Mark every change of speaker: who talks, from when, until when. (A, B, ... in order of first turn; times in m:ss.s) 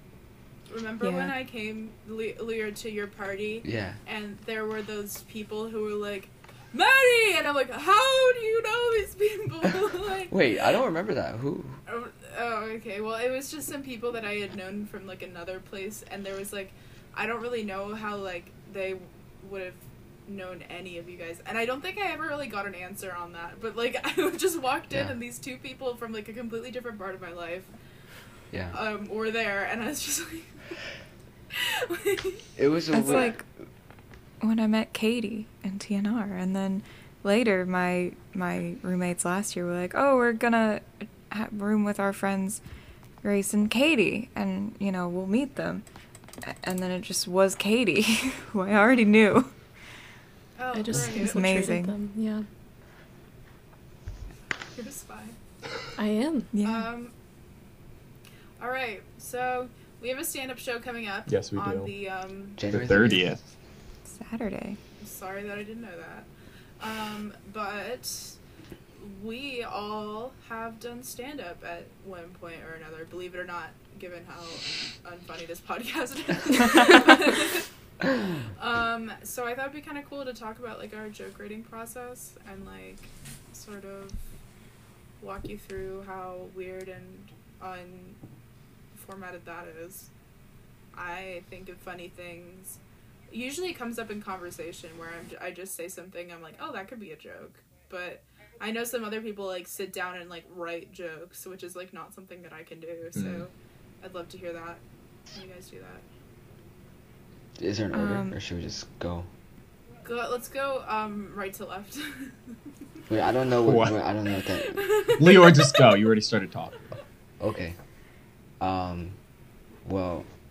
0:00.7-0:10.4 A
0:01.0-0:01.3 B
0:03.6-0:04.0 C
0:10.3-0:11.8 C
0:11.9-0:27.7 A
0:28.7-0:30.6 A
0:31.5-0:33.4 A
0:32.6-0:33.4 C
0:32.9-0:33.4 B
0:34.4-0:42.6 B
0:43.2-0:45.8 B
0:46.4-0:49.5 B
0:50.6-0:51.7 A
0:50.7-0:52.4 D
0:50.9-0:51.9 B
0:54.7-0:55.4 A
0:56.0-0:56.5 D
0:56.5-0:56.9 B
0:56.6-0:57.1 A
0:58.6-1:02.6 A
1:01.3-1:01.9 E
1:02.6-1:03.4 C
1:02.7-1:03.4 E
1:04.1-1:04.8 B
1:05.0-1:06.3 A
1:06.8-1:08.4 A
1:09.0-1:17.7 A
1:18.6-1:24.2 A
1:25.2-1:28.2 A
1:28.9-1:30.1 A
1:30.9-1:46.0 A
1:43.1-1:43.4 E
1:47.6-1:49.3 C
1:47.9-1:48.3 B
1:50.0-1:52.3 A
1:53.1-1:54.8 C
1:53.6-1:54.0 E
1:54.6-1:55.8 A
1:55.2-1:56.9 E
1:57.4-1:57.8 C
1:58.6-1:59.2 C
1:59.8-2:00.3 C